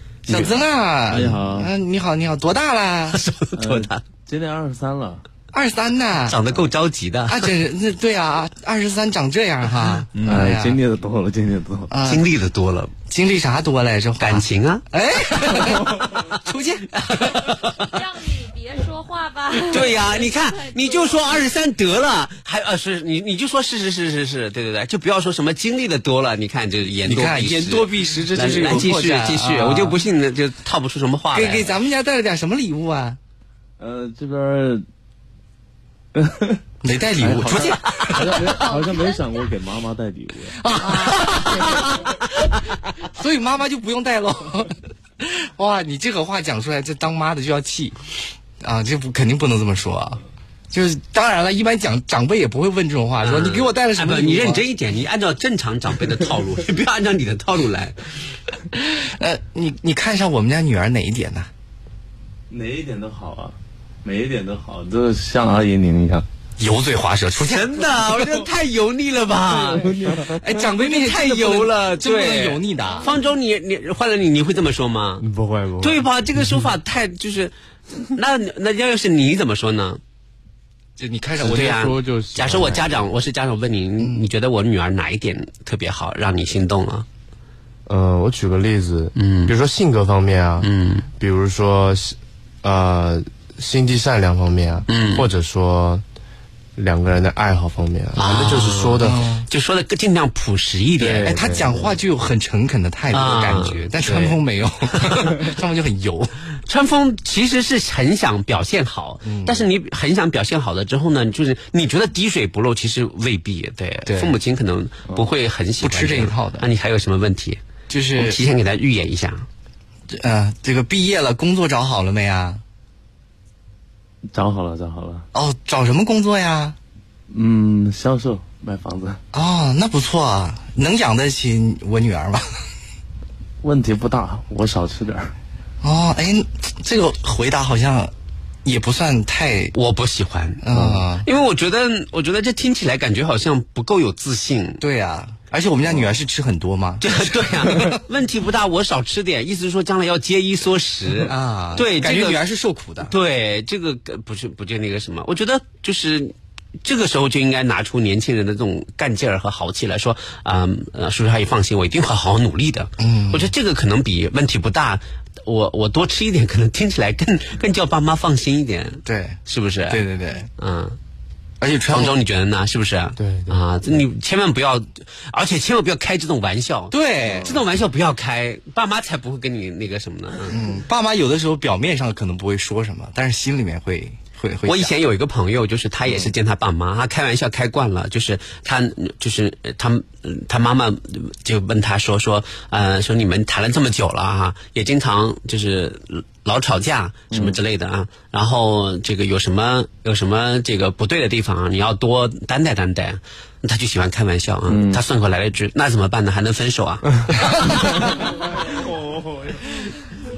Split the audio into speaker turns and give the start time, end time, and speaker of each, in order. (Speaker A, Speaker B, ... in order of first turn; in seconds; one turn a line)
Speaker A: 0.3-0.5
Speaker B: 0.3-3.2
Speaker A: 1.1-1.7
Speaker C: 3.1-4.0
Speaker A: 3.5-5.2
Speaker B: 5.5-6.4
Speaker C: 6.3-7.5
Speaker B: 7.3-10.8
Speaker C: 10.2-10.4
Speaker A: 10.2-11.9
Speaker B: 11.9-12.3
Speaker C: 12.0-12.9
Speaker B: 13.1-17.2
Speaker C: 14.2-14.8
Speaker C: 16.9-17.9
Speaker D: 17.9-21.4
Speaker C: 19.7-31.7
Speaker B: 27.0-30.0
Speaker B: 31.3-33.2
Speaker A: 33.8-34.8
Speaker A: 36.1-36.6
Speaker B: 36.8-38.5
Speaker A: 37.2-40.6
Speaker D: 38.7-39.0
Speaker B: 40.6-41.8
Speaker D: 40.8-41.9
Speaker B: 43.1-48.0
Speaker B: 48.6-50.2
Speaker B: 50.7-54.6
Speaker C: 53.2-57.9
Speaker B: 58.9-61.5
Speaker A: 62.5-66.2
Speaker B: 66.6-67.8
Speaker C: 67.4-75.2
Speaker A: 69.6-70.4
Speaker B: 70.3-73.1
Speaker E: 75.2-76.1
Speaker C: 75.8-80.0
Speaker B: 81.0-81.9
Speaker C: 81.4-87.0
Speaker E: 81.5-83.0
Speaker B: 84.0-84.3
Speaker E: 87.9-96.0
Speaker C: 89.2-89.5
Speaker C: 90.6-91.1
Speaker C: 94.9-95.3
Speaker E: 96.8-99.2
Speaker C: 98.2-101.8
Speaker B: 99.0-99.5
Speaker E: 101.0-101.8
Speaker B: 101.2-106.3
Speaker C: 103.1-104.4
Speaker C: 106.7-117.6
Speaker B: 109.2-109.7
Speaker B: 114.0-114.4
Speaker B: 115.8-116.7
Speaker B: 117.9-118.4
Speaker C: 118.2-119.5
Speaker B: 120.1-122.6
Speaker A: 124.3-125.2
Speaker B: 125.3-126.8
Speaker A: 127.3-129.2
Speaker B: 129.3-132.4
Speaker A: 133.6-135.3
Speaker B: 135.8-138.1
Speaker B: 138.6-139.7
Speaker C: 139.8-140.6
Speaker B: 140.6-141.3
Speaker C: 141.2-144.8
Speaker B: 144.8-148.0
Speaker C: 147.0-152.4
Speaker B: 151.1-153.1
Speaker C: 153.0-170.0
Speaker B: 163.0-163.5
Speaker B: 169.0-170.5
Speaker C: 170.6-171.0
Speaker B: 171.6-172.2
Speaker C: 171.9-180.6
Speaker E: 173.2-173.6
Speaker B: 176.9-177.6
Speaker B: 180.5-184.9
Speaker C: 184.6-208.1
Speaker B: 186.1-186.3
Speaker A: 197.3-197.6
Speaker A: 204.7-205.0
Speaker A: 209.3-209.5